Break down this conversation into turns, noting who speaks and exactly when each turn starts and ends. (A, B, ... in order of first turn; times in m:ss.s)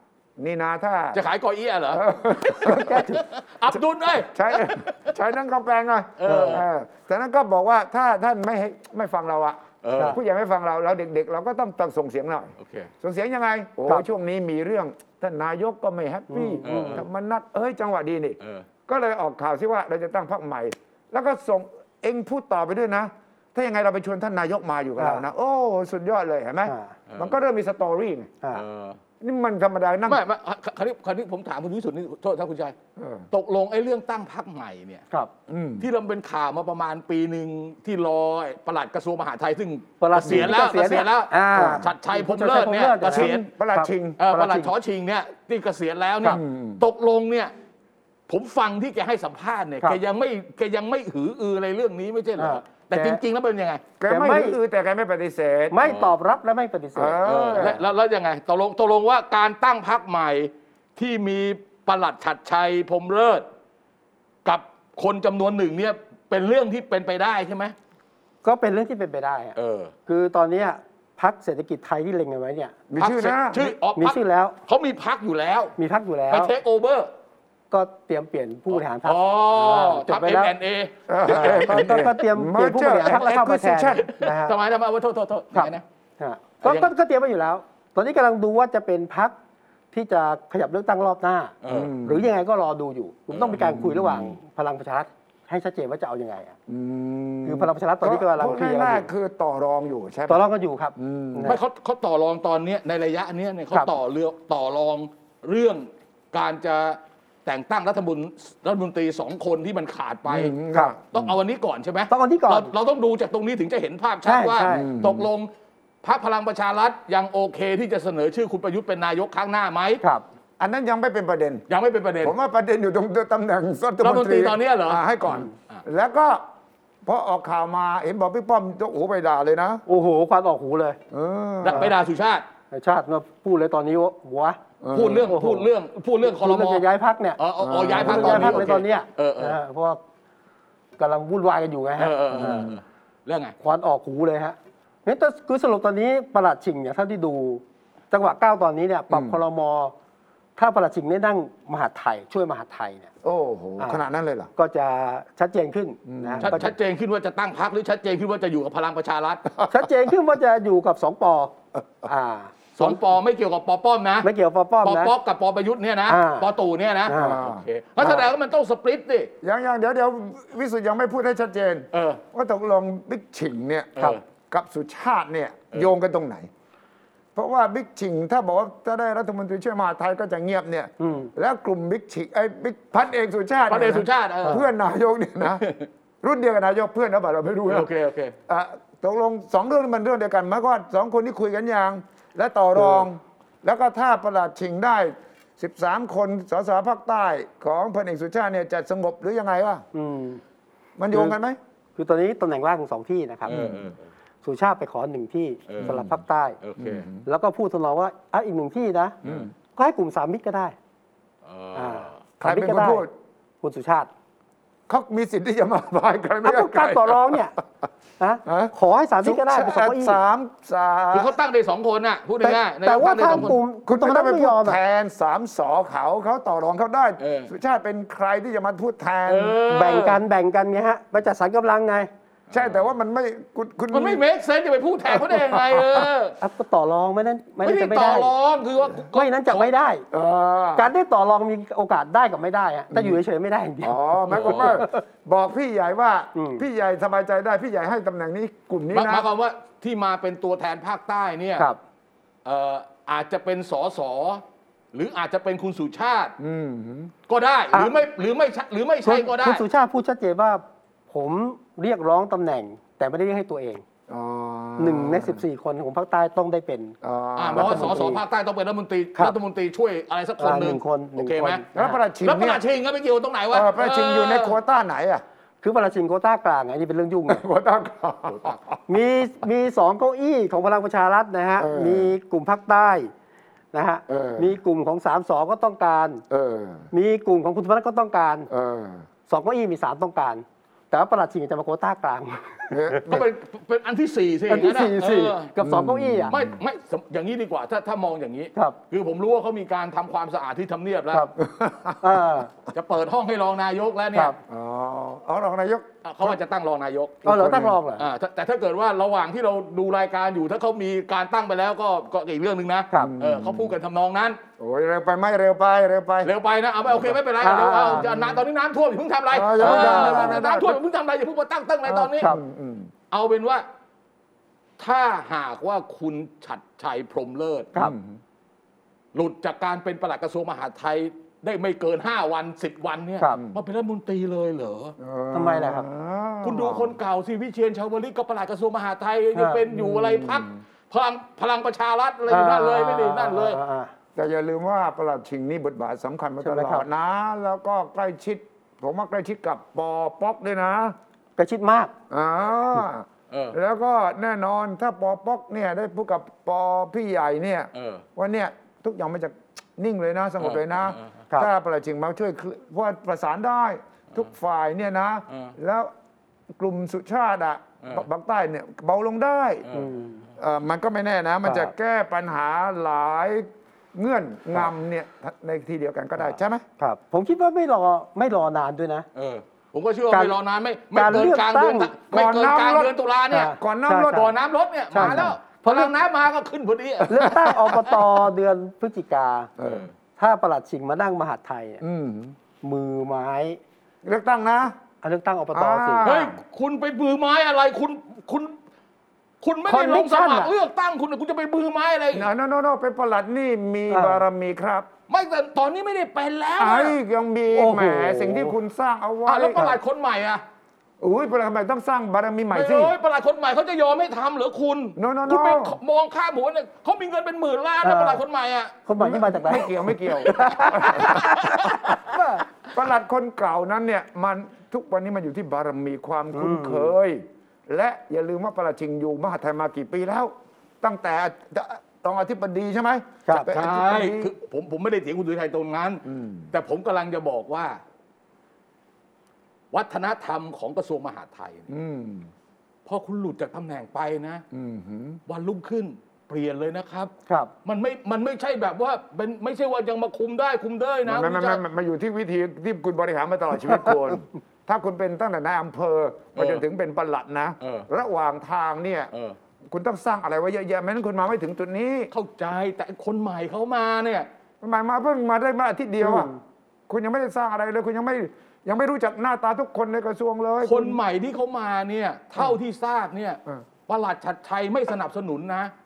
0:00.4-0:01.2 A
0:01.1-0:05.1 B
0:01.9-0:03.0 A
0:02.6-0:03.2 C
0:04.2-0:28.3 A
0:06.2-0:06.6 B
0:06.2-0:06.6 C
0:09.8-0:10.2 B
0:12.6-0:12.9 B
0:16.3-0:17.0 C
0:16.6-0:17.0 B
0:18.4-0:18.7 B
0:25.0-0:25.2 C
0:26.6-0:26.9 C
0:27.1-0:27.3 B
0:28.5-0:29.0 B
0:29.2-0:30.2 A
0:30.1-0:32.7 B
0:33.0-0:33.3 A
0:33.3-0:35.0 B
0:35.5-0:35.9 A
0:35.8-0:43.4 B
0:40.0-0:44.7 C
0:40.2-0:40.6 A
0:41.5-0:41.9 A
0:43.1-0:44.2 A
0:44.2-0:47.5 B
0:46.3-0:46.8 A
0:48.3-0:53.8 B
0:52.4-0:53.2 C
0:54.0-0:55.8 A
0:54.1-0:54.6 C
0:55.7-0:57.7 C
0:55.8-0:56.1 B
0:56.9-0:57.8 A
0:57.2-1:03.4 B
1:04.4-1:07.7 B
1:08.4-1:09.5 C
1:09.6-1:09.9 B
1:10.0-1:12.8 C
1:12.9-1:13.7 A
1:13.0-1:15.7 B
1:14.0-1:14.6 C
1:15.8-1:16.5 C
1:16.3-1:17.1 B
1:17.7-1:20.5 C
1:18.7-1:22.0 B
1:21.1-1:24.1 A
1:21.2-1:24.6 C
1:23.9-1:25.8 B
1:25.5-1:29.4 C
1:26.6-1:26.9 B
1:29.9-1:36.5 C
1:31.6-1:31.9 B
1:31.7-1:32.3 A
1:33.3-1:33.6 B
1:33.5-1:34.4 A
1:36.7-1:40.4 A
1:37.4-1:39.1 C
1:40.3-1:41.6 C
1:41.0-1:41.6 A
1:41.4-1:50.6 B
1:50.3-1:51.4 A
1:51.1-1:55.5 B
1:52.1-1:52.7 C
1:54.2-1:54.9 C
1:54.7-1:55.3 A
1:56.0-2:00.0 B
2:00.6-2:01.6 A
2:01.7-2:02.3 B
2:02.2-2:06.4 A
2:04.0-2:05.0 B
2:07.0-2:09.8 A
2:09.9-2:11.0 C
2:11.1-2:11.9 A
2:11.6-2:12.4 B
2:12.7-2:15.7 C
2:14.8-2:15.3 A
2:14.9-2:16.8 B
2:16.2-2:20.0 C
2:17.4-2:19.6 B
2:17.6-2:18.8 A
2:21.0-2:22.7 C
2:22.0-2:23.5 B
2:22.3-2:22.8 A
2:23.6-2:29.9 C
2:29.1-2:29.4 A
2:30.6-2:33.1 C
2:33.2-2:34.5 A
2:34.6-2:36.7 C
2:36.1-2:36.7 A
2:36.4-2:39.5 B
2:39.7-2:43.0 C
2:42.8-2:44.3 B
2:44.2-2:45.1 C
2:44.8-2:49.3 B
2:46.1-2:46.5 C
2:47.1-2:47.4 C
2:47.1-2:48.3 A
2:49.4-2:54.0 A
2:51.9-2:52.2 B
2:54.5-2:56.5 A
2:57.3-3:05.6 A
3:01.0-3:01.3 C
3:03.7-3:04.6 B
3:05.6-3:05.8 B
3:06.2-3:07.9 A
3:07.7-3:08.4 B
3:08.5-3:19.8 A
3:12.8-3:13.0 C
3:19.9-3:20.4 C
3:21.0-3:21.6 A
3:21.1-3:21.4 C
3:22.0-3:23.5 C
3:23.5-3:24.0 B
3:23.5-3:23.9 A
3:24.4-3:26.6 C
3:25.7-3:26.0 B
3:25.8-3:26.2 A
3:26.6-3:27.0 B
3:26.8-3:27.2 A
3:27.2-3:29.2 C
3:29.2-3:29.5 A
3:29.8-3:30.7 C
3:31.4-3:32.2 B
3:31.7-3:33.0 C
3:32.4-3:33.1 A
3:33.6-3:34.1 C
3:34.9-3:37.6 A
3:36.4-3:37.5 C
3:38.2-3:40.2 C
3:38.4-3:41.3 A
3:41.1-3:43.6 B
3:42.4-3:44.8 C
3:43.8-3:49.6 A
3:47.2-3:47.5 B
3:49.2-3:50.2 B
3:49.7-3:52.1 C
3:52.5-3:52.8 B
3:52.5-3:54.2 A
3:53.9-3:56.4 B
3:55.1-3:56.1 A
3:56.4-3:58.3 C
3:57.6-3:59.7 B
3:59.1-4:00.0 C
4:00.1-4:00.9 A
4:00.8-4:05.0 C
4:02.9-4:03.2 A
4:03.8-4:09.3 A
4:04.3-4:04.8 B
4:06.3-4:06.6 C
4:08.9-4:11.7 B
4:12.4-4:14.4 B
4:14.9-4:16.3 B
4:16.4-4:17.1 A
4:17.3-4:19.6 B
4:17.7-4:18.0 C
4:19.0-4:23.8 C
4:24.1-4:25.4 A
4:24.8-4:27.0 C
4:27.0-4:28.2 A
4:27.4-4:31.6 B
4:27.5-4:28.2 C
4:30.4-4:32.0 C
4:31.7-4:32.6 A
4:32.2-4:34.6 B
4:33.5-4:35.2 A
4:35.6-4:37.4 C
4:37.3-4:38.8 A
4:38.9-4:43.1 C
4:41.6-4:42.1 A
4:43.7-4:46.2 C
4:44.1-4:44.5 A
4:46.3-4:46.9 A
4:46.9-4:48.5 C
4:48.5-4:49.0 A
4:49.3-4:53.2 C
4:52.7-4:53.2 A
4:53.0-4:55.5 B
4:54.5-4:56.3 C
4:55.6-4:56.6 A
4:56.3-5:01.3 B
5:01.4-5:02.2 A
5:02.0-5:02.5 C
5:02.7-5:04.3 B
5:04.5-5:06.4 A
5:06.0-5:07.2 B
5:07.2-5:07.8 A
5:07.2-5:08.0 C
5:08.0-5:14.4 B
5:13.0-5:13.8 A
5:14.6-5:16.3 A
5:16.2-5:22.3 B
5:17.4-5:18.0 C
5:17.6-5:18.4 A
5:19.3-5:20.8 A
5:19.6-5:20.4 C
5:21.9-5:22.4 C
5:22.2-5:22.9 A
5:23.1-5:23.6 B
5:24.8-5:27.7 B
5:27.7-5:28.2 A
5:29.1-5:35.0 B
5:33.3-5:33.6 A
5:35.0-5:37.0 A
5:35.3-5:35.9 C
5:36.4-5:43.6 B
5:39.3-5:39.6 C
5:39.7-5:40.6 A
5:42.3-5:43.9 C
5:44.1-5:50.9 A
5:46.4-5:46.8 C
5:51.4-5:51.9 C
5:52.1-6:05.9 A
5:53.3-5:53.6 B
5:57.7-5:58.0 B
6:00.4-6:01.1 B
6:05.3-6:05.5 B
6:06.6-6:09.6 A
6:09.6-6:09.9 B
6:09.7-6:10.2 C
6:10.4-6:16.6 A
6:11.4-6:11.7 C
6:16.8-6:19.0 C
6:19.1-6:23.5 B
6:20.1-6:20.4 C
6:20.9-6:21.9 C
6:22.1-6:22.9 A
6:23.3-6:24.3 C
6:23.6-6:24.3 A
6:24.1-6:28.0 B
6:24.9-6:25.3 C
6:25.0-6:25.3 A
6:27.0-6:29.5 C
6:27.2-6:27.7 A
6:29.6-6:29.9 A
6:29.6-6:29.9 B
6:30.2-6:31.8 C
6:31.8-6:32.4 A
6:32.6-6:33.6 C
6:34.0-6:34.7 A
6:35.0-6:36.1 C
6:35.5-6:36.4 A
6:36.0-6:38.6 B
6:39.4-6:42.3 B
6:39.6-6:40.5 C
6:42.1-6:44.9 A
6:43.9-6:44.2 C
6:45.1-6:47.0 B
6:46.6-6:49.8 A
6:47.5-6:48.6 C
6:49.2-6:50.4 B
6:51.0-6:52.9 A
6:52.5-6:58.8 B
6:55.0-6:55.8 A
6:57.8-6:58.2 C
6:58.8-7:02.4 C
6:59.0-7:02.0 A
7:00.2-7:01.9 B
7:02.7-7:14.3 A
7:06.3-7:06.9 C
7:13.5-7:17.8 B
7:16.0-7:16.5 A
7:19.7-7:21.6 B
7:21.7-7:22.3 A
7:22.8-7:24.4 B
7:24.5-7:25.2 A
7:25.3-7:27.1 B
7:27.6-7:31.6 B
7:31.0-7:39.1 A
7:36.4-7:36.6 B
7:37.6-7:37.9 B
7:39.1-7:39.4 B
7:39.7-7:42.1 A
7:42.1-7:44.3 B
7:44.6-7:46.3 A
7:46.0-7:46.4 C
7:46.9-7:51.0 A
7:50.6-7:55.7 B